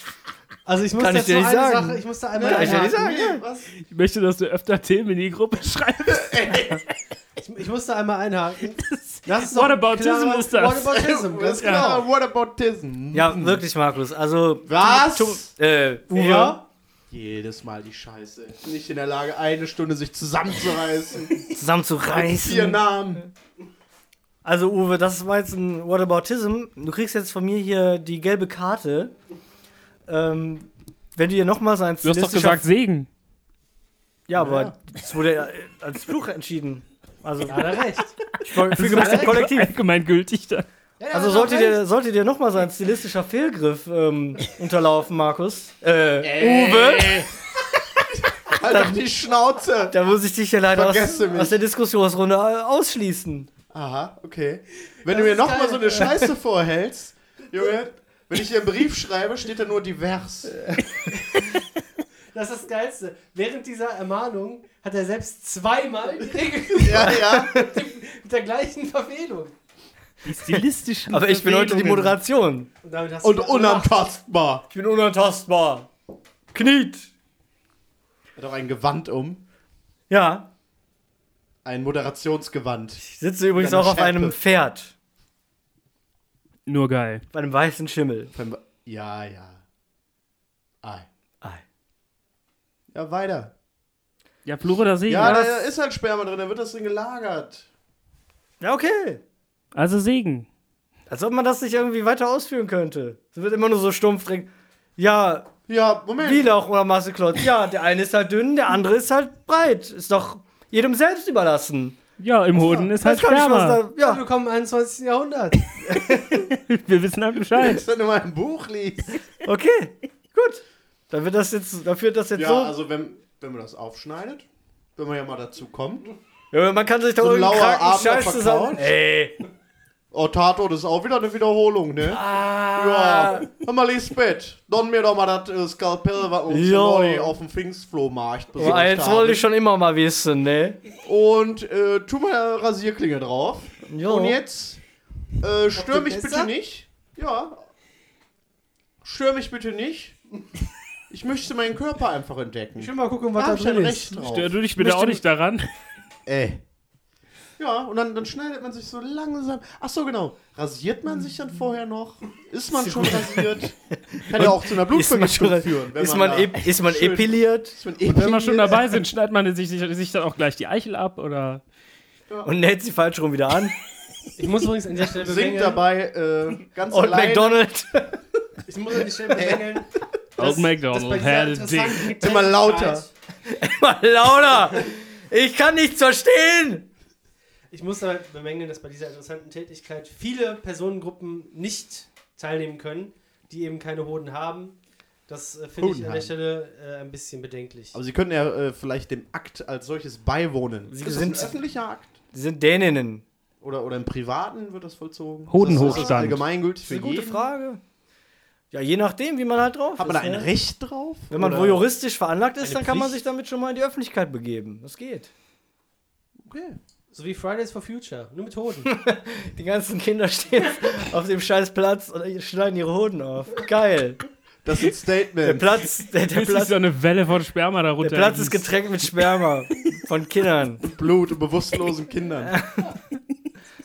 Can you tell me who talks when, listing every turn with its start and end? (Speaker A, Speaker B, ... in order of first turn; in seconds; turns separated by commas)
Speaker A: 0.6-3.0, Speaker B: 1.0-3.4, Speaker C: 2.3-3.7, Speaker D: 3.8-6.8, Speaker C: 6.1-6.8, Speaker A: 7.4-12.0, Speaker D: 8.8-11.0, Speaker C: 10.8-13.6, Speaker D: 11.6-11.9, Speaker B: 13.1-16.6, Speaker C: 14.7-15.5, Speaker A: 16.1-16.6, Speaker C: 17.1-21.5, Speaker B: 21.5-23.3, Speaker C: 22.1-23.2, Speaker B: 24.4-29.1, Speaker B: 30.1-32.6, Speaker D: 32.0-33.1, Speaker B: 34.3-37.8, Speaker C: 34.3-34.8, Speaker A: 37.5-38.2, Speaker B: 38.4-39.7, Speaker D: 38.6-40.6, Speaker A: 38.8-39.4, Speaker A: 41.0-41.8, Speaker B: 41.1-47.3, Speaker C: 46.2-47.3, Speaker C: 48.1-49.9, Speaker B: 48.6-49.0, Speaker B: 49.9-53.5, Speaker C: 50.7-51.6, Speaker C: 53.7-60.7, Speaker A: 55.1-56.1, Speaker B: 60.6-61.0, Speaker A: 62.3-69.5, Speaker C: 66.8-67.5, Speaker B: 67.0-67.4, Speaker D: 70.2-72.2, Speaker B: 70.3-72.7, Speaker A: 72.8-74.0, Speaker C: 73.2-74.6, Speaker B: 74.7-75.9, Speaker B: 76.5-77.1, Speaker C: 78.3-79.4, Speaker B: 80.1-80.5, Speaker C: 81.6-83.0, Speaker B: 83.0-84.9, Speaker C: 83.5-84.4, Speaker D: 86.7-87.2, Speaker B: 87.3-88.3, Speaker C: 88.3-89.6, Speaker C: 90.8-91.1, Speaker C: 92.9-93.5, Speaker D: 94.4-95.3, Speaker C: 95.1-97.7, Speaker B: 95.2-95.6, Speaker B: 98.6-99.2, Speaker D: 99.7-100.5, Speaker B: 101.1-105.5, Speaker C: 105.7-106.5, Speaker B: 106.2-112.0, Speaker D: 112.2-113.8, Speaker B: 113.0-114.2, Speaker A: 114.0-115.7, Speaker B: 115.8-116.4, Speaker D: 115.9-117.8, Speaker C: 117.5-119.2, Speaker B: 119.4-122.7, Speaker C: 122.3-126.1, Speaker B: 126.5-129.4, Speaker C: 127.2-128.9, Speaker C: 130.1-139.4, Speaker B: 132.1-133.5, Speaker B: 136.5-137.3, Speaker B: 138.6-140.8, Speaker C: 141.0-144.8, Speaker B: 143.9-144.4, Speaker C: 145.4-147.7, Speaker A: 145.7-146.5, Speaker C: 149.0-150.2, Speaker C: 151.1-154.6, Speaker A: 152.8-154.2, Speaker D: 154.2-155.7, Speaker B: 154.8-155.2, Speaker C: 156.2-156.6, Speaker C: 157.6-168.9, Speaker B: 162.7-167.8, Speaker D: 168.0-171.6, Speaker B: 172.4-173.8, Speaker A: 174.4-175.8, Speaker C: 175.1-177.6, Speaker B: 176.9-178.2, Speaker A: 178.7-183.1, Speaker C: 179.3-179.8, Speaker D: 180.4-182.1, Speaker C: 182.2-183.1, Speaker B: 183.4-186.9, Speaker A: 187.7-198.0, Speaker C: 195.8-196.3, Speaker C: 197.9-202.2, Speaker B: 200.9-201.6, Speaker B: 202.3-203.2, Speaker C: 203.6-207.5, Speaker D: 205.5-206.4, Speaker B: 205.7-206.3, Speaker B: 206.8-207.8, Speaker B: 208.7-210.5, Speaker C: 210.0-211.8, Speaker B: 211.3-215.3, Speaker A: 212.6-213.2, Speaker C: 216.4-216.8, Speaker A: 217.1-218.9, Speaker B: 218.8-224.2, Speaker C: 224.6-225.8, Speaker B: 225.4-226.7, Speaker D: 226.3-228.7, Speaker B: 228.0-230.8, Speaker C: 230.8-232.5, Speaker B: 232.4-233.0